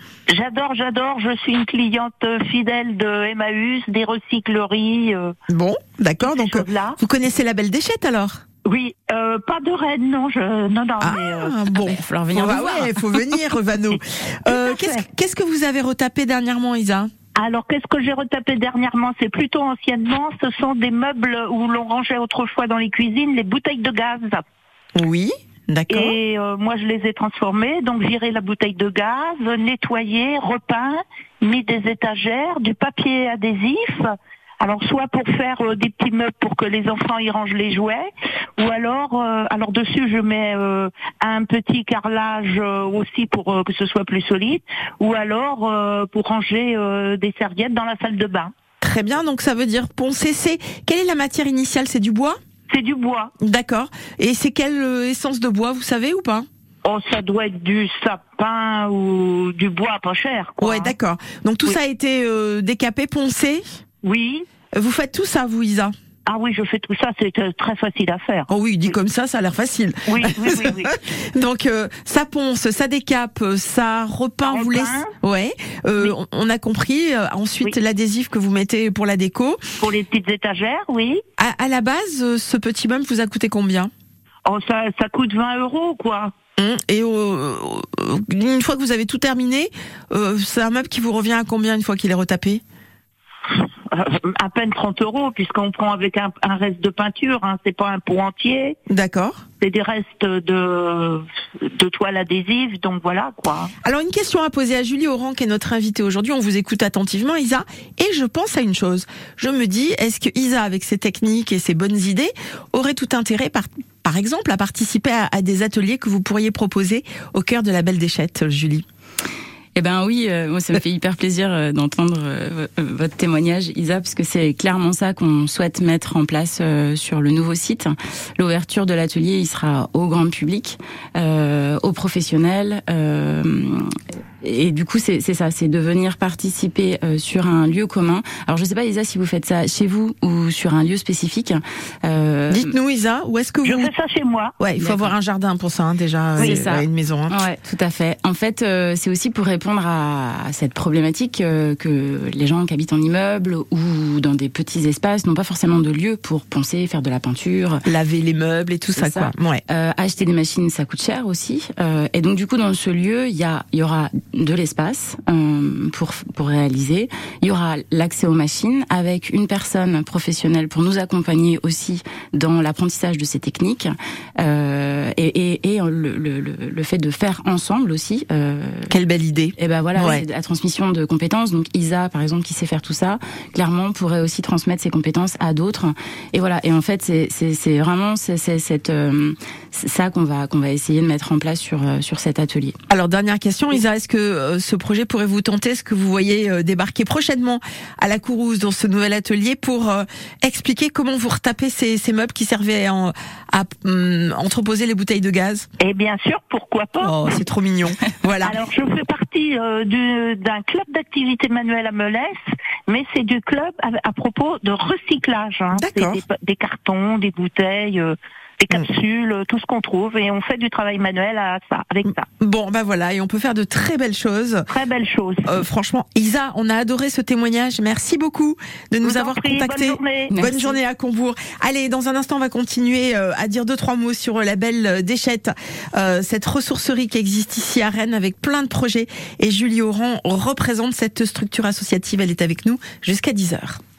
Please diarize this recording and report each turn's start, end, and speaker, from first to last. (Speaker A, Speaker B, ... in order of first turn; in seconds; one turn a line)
Speaker A: 0.3-5.3
Speaker B: 5.5-8.4
Speaker A: 6.2-7.0
Speaker A: 8.6-11.5
Speaker B: 11.0-17.1
Speaker C: 11.8-13.0
Speaker A: 14.5-15.0
Speaker A: 17.4-24.4
Speaker B: 24.9-26.2
Speaker A: 25.9-48.5
Speaker B: 48.8-52.4
Speaker A: 52.7-53.3
Speaker B: 53.4-56.5
Speaker A: 56.8-60.9
Speaker B: 60.6-63.6
Speaker A: 64.0-64.5
Speaker B: 64.7-65.9
Speaker A: 66.2-68.5
Speaker B: 68.5-79.6
Speaker A: 70.1-70.9
Speaker A: 74.5-75.1
Speaker A: 79.8-81.2
Speaker B: 81.4-83.9
Speaker A: 84.5-86.3
Speaker B: 86.6-92.6
Speaker A: 93.6-98.8
Speaker B: 98.9-99.4
Speaker A: 99.6-103.7
Speaker B: 103.8-118.8
Speaker C: 119.8-142.7
Speaker B: 142.5-143.9
Speaker A: 143.6-144.6
Speaker B: 144.6-147.3
Speaker C: 144.8-145.1
Speaker C: 146.4-157.8
Speaker B: 157.8-159.6
Speaker C: 158.9-178.9
Speaker B: 178.9-180.2
Speaker C: 179.6-192.8
Speaker B: 192.9-205.7
Speaker A: 205.8-207.2
Speaker B: 207.0-208.6
Speaker A: 208.4-212.4
Speaker A: 212.9-222.3
Speaker B: 215.7-216.2
Speaker B: 222.4-224.7
Speaker A: 224.7-225.5
Speaker B: 225.4-243.8
Speaker A: 229.0-230.6
Speaker C: 230.3-230.7